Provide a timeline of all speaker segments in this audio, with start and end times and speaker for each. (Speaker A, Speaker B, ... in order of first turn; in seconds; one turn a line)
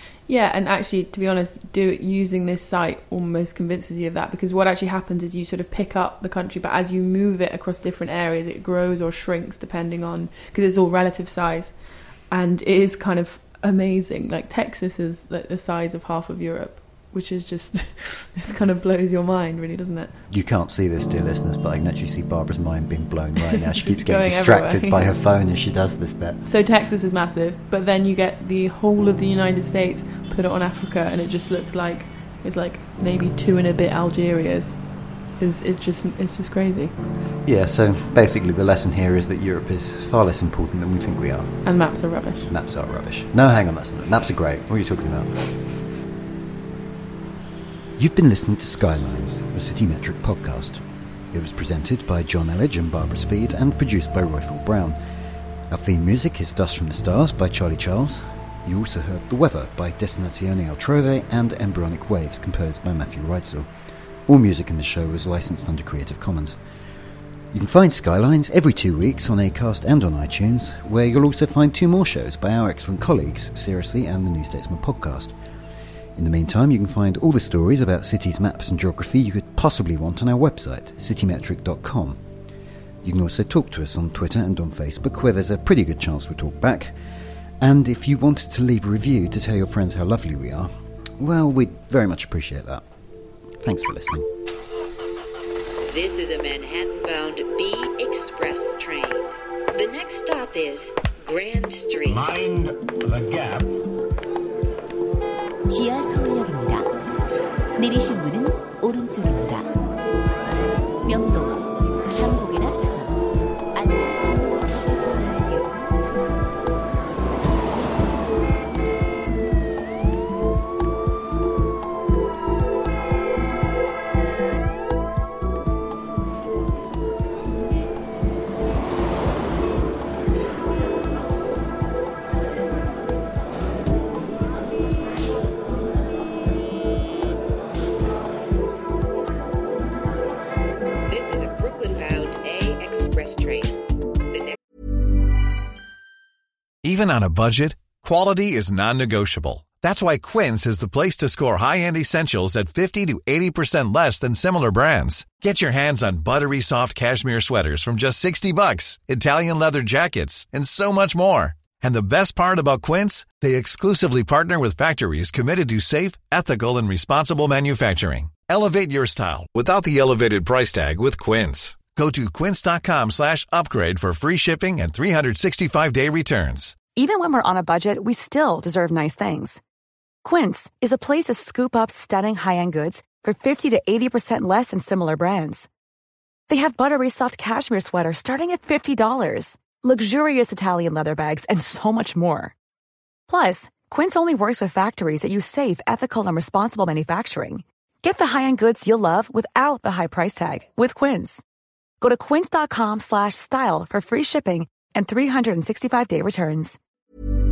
Speaker A: 0.3-20.1
Speaker B: 20.3-26.4
Speaker A: 23.5-25.1
Speaker A: 26.4-34.8
Speaker A: 35.4-36.9
Speaker B: 37.4-41.6
Speaker A: 41.6-42.5
Speaker B: 42.5-45.7
Speaker B: 48.0-55.0
Speaker B: 55.7-63.7
Speaker B: 64.3-66.6
Speaker B: 67.5-75.3
Speaker B: 76.2-82.2
Speaker B: 83.0-86.9
Speaker B: 87.6-92.8
Speaker B: 93.6-94.3
Speaker C: 95.9-102.5
Speaker D: 105.7-106.9
Speaker D: 107.8-109.7
Speaker D: 111.0-113.2
Speaker D: 113.7-116.7
Speaker D: 117.6-118.3
Speaker C: 141.1-144.6
Speaker E: 146.8-176.8
Speaker F: 176.8-179.6
Speaker F: 180.2-185.7
Speaker F: 186.5-192.5
Speaker F: 193.3-201.4
Speaker F: 202.0-206.8